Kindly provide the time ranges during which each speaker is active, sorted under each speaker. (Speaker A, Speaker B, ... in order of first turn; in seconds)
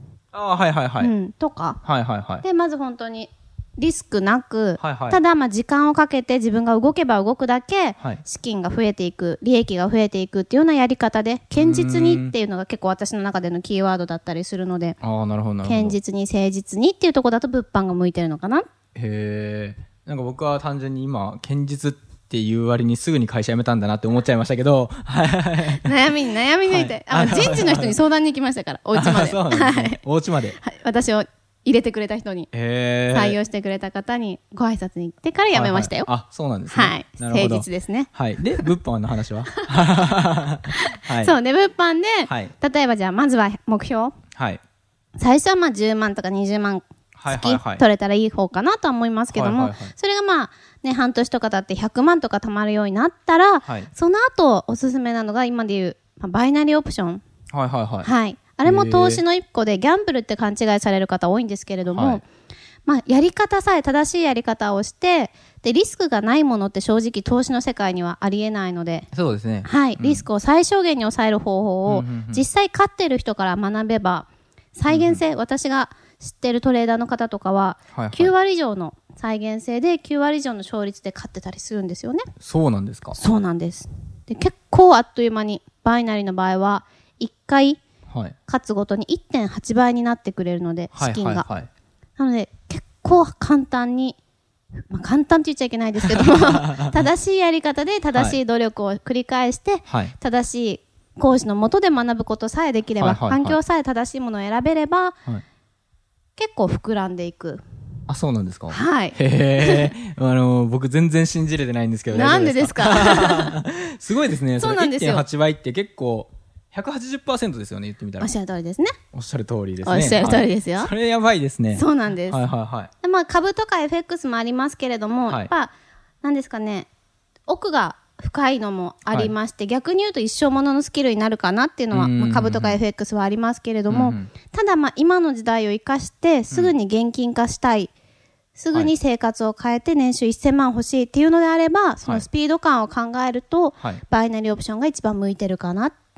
Speaker A: 0.3-1.1, 1.8-2.4, 4.8-5.2, 8.0-8.2, 11.6-12.3, 15.0-16.0, 18.9-25.9, 26.6-28.0, 28.9-30.6, 32.5-33.4, 35.5-41.4, 42.3-42.5, 44.4-44.6, 47.1-47.9, 49.3-49.9, 53.6-53.9, 57.5-58.1, 58.6-59.2, 61.9-62.2, 69.1-70.2, 71.9-72.5, 74.9-75.2, 77.9-78.3, 82.4-83.2, 88.1-88.4, 90.9-91.7, 96.2-97.0, 99.9-100.1, 103.0-103.6, 108.1-118.3, 119.1-122.9, 125.3-125.5, 129.1-129.3, 131.9-132.8, 133.9-134.3
Speaker B: 1.0-1.8, 2.4-15.0, 15.6-18.6, 25.7-30.0, 30.6-32.5, 33.1-36.1, 36.7-38.7, 39.5-39.8, 40.7-44.1, 45.2-57.2, 58.0-62.2, 62.9-69.1, 69.7-82.2, 83.2-87.8, 88.5-91.5, 92.2-94.2, 94.9-105.2, 106.4-107.6, 108.7-109.9, 112.1-113.6, 114.6-115.2, 118.2-118.9, 119.8-120.9, 121.7-122.4, 123.0-126.9, 127.5-137.9, 138.6-145.9